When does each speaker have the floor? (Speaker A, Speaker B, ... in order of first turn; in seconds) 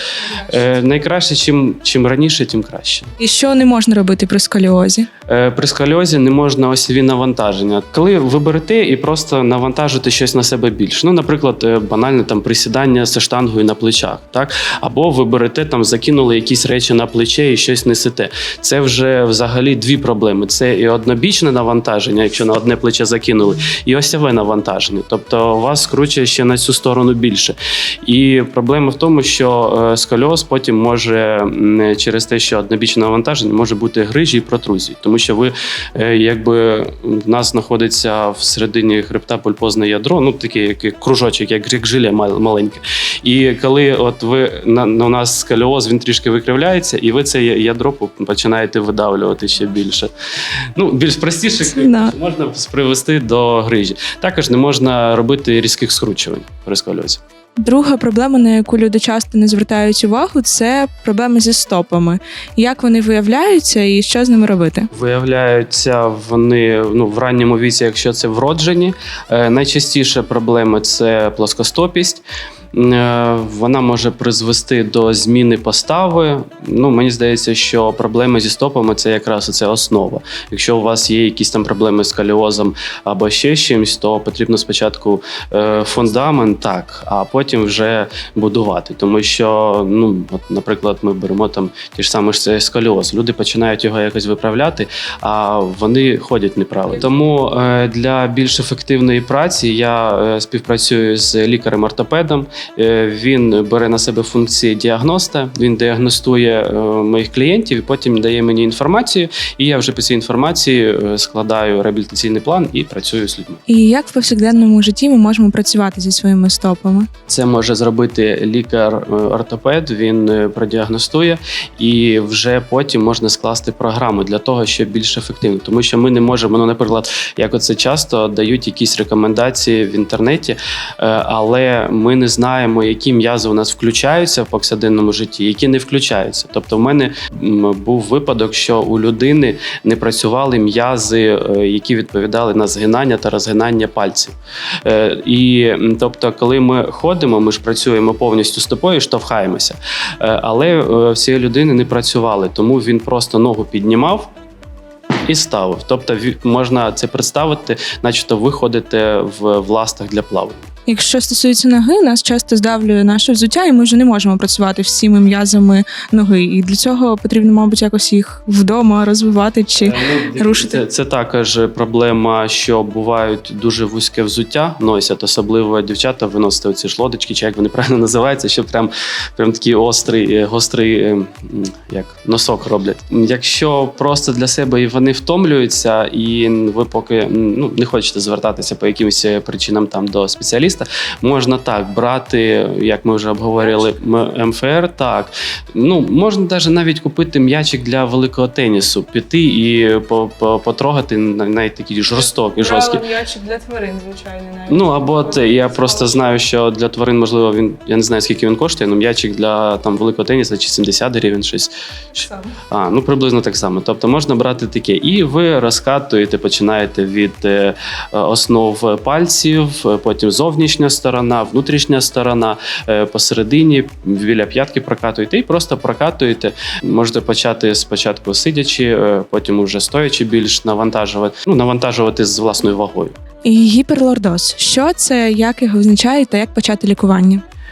Speaker A: 0.2-0.6, 3.2-5.1, 51.7-52.1, 57.6-64.9, 113.7-117.1, 160.9-170.8, 202.2-206.4, 212.1-212.6, 233.4-237.4
Speaker B: 0.5-3.1, 5.3-50.1, 50.8-57.2, 64.9-113.6, 117.3-154.3, 155.3-160.6, 169.8-203.1, 204.7-211.7, 212.7-233.2